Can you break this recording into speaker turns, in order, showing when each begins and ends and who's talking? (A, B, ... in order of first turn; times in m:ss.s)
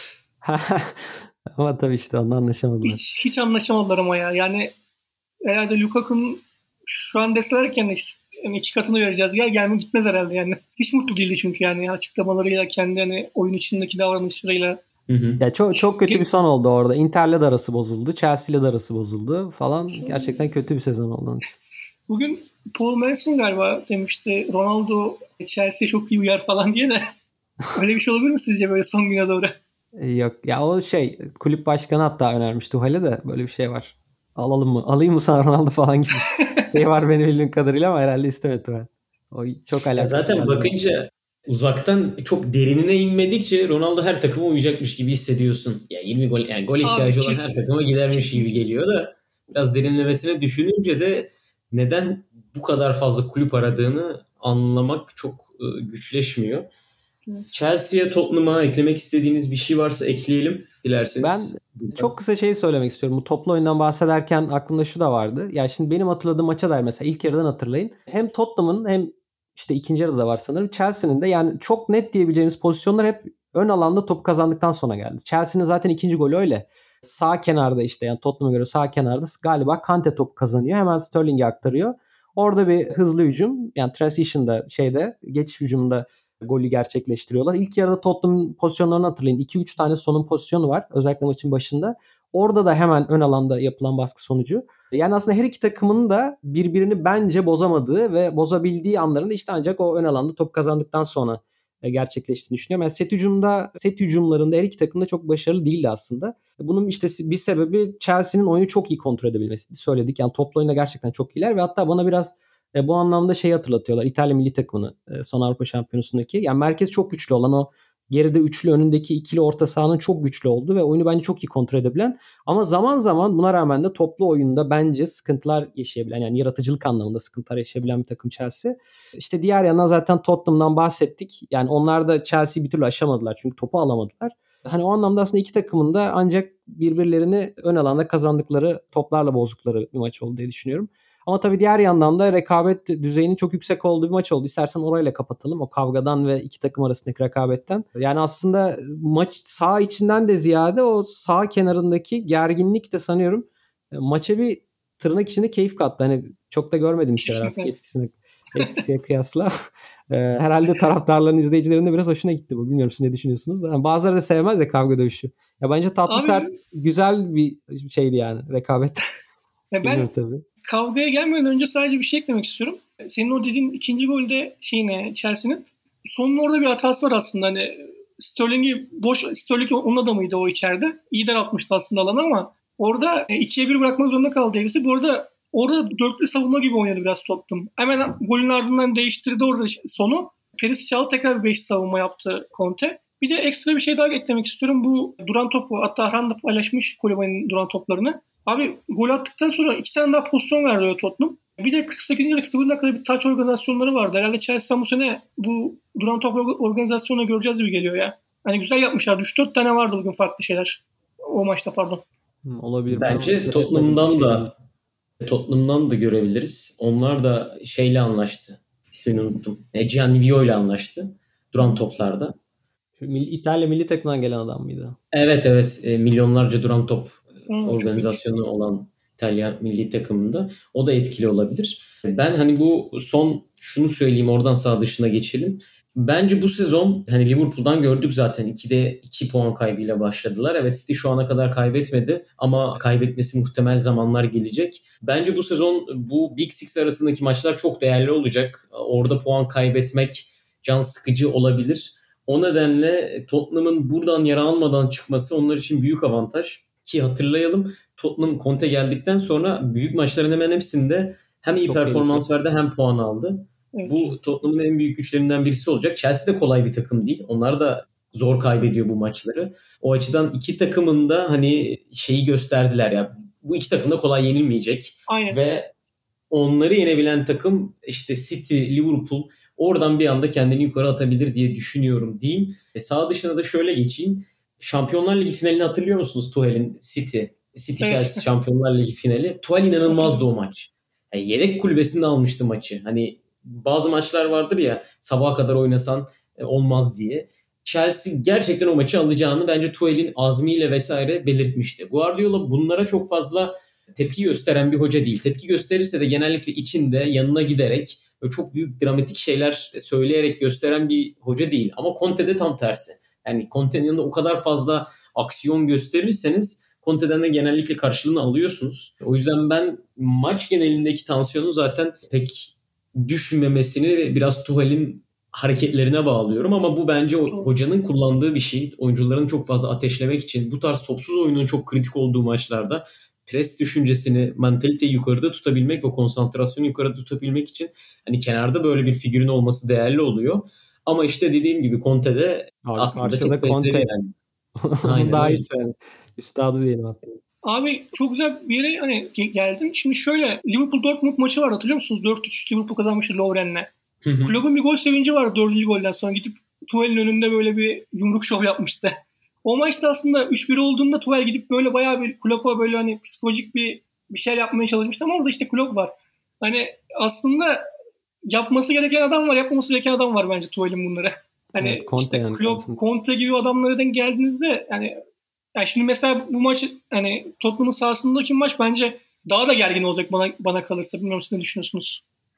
0:00.4-0:03.0 A
0:02.8-0:04.7 B
0:05.4-0:14.8 B
0:15.1-0:15.4 C
0:15.4-0:21.6 A
0:19.9-0:20.4 B
0:22.1-0:27.1 B
0:27.7-0:29.6 B
0:30.0-0:40.8 A
0:40.0-0:56.7 C
0:46.8-0:48.4 B
0:57.5-1:02.1 C
1:01.2-2:39.5 A
2:37.2-2:37.7 B
2:40.1-2:49.1 A
2:46.1-2:46.6 B
2:49.7-2:50.1 B
2:49.8-2:50.4 A
2:50.7-3:32.0 B
3:32.4-3:34.5 A
3:32.9-3:34.5 C
3:35.2-3:42.4 C
3:43.0-3:45.0 A
3:45.1-4:35.7 C
3:47.5-3:48.2 B
4:21.6-4:22.3 A
4:23.7-4:24.2 B
4:35.1-4:35.4 B
4:36.3-5:44.1 C
4:47.8-4:48.3 B
4:49.9-4:50.2 B
5:42.6-5:43.9 A
5:44.6-5:47.2 A
5:44.8-5:45.4 C
5:47.4-5:53.7 B
5:54.0-5:54.4 C
5:54.2-6:07.6 B
6:08.3-6:15.0 B
6:11.6-6:12.8 A
6:15.6-6:22.0 B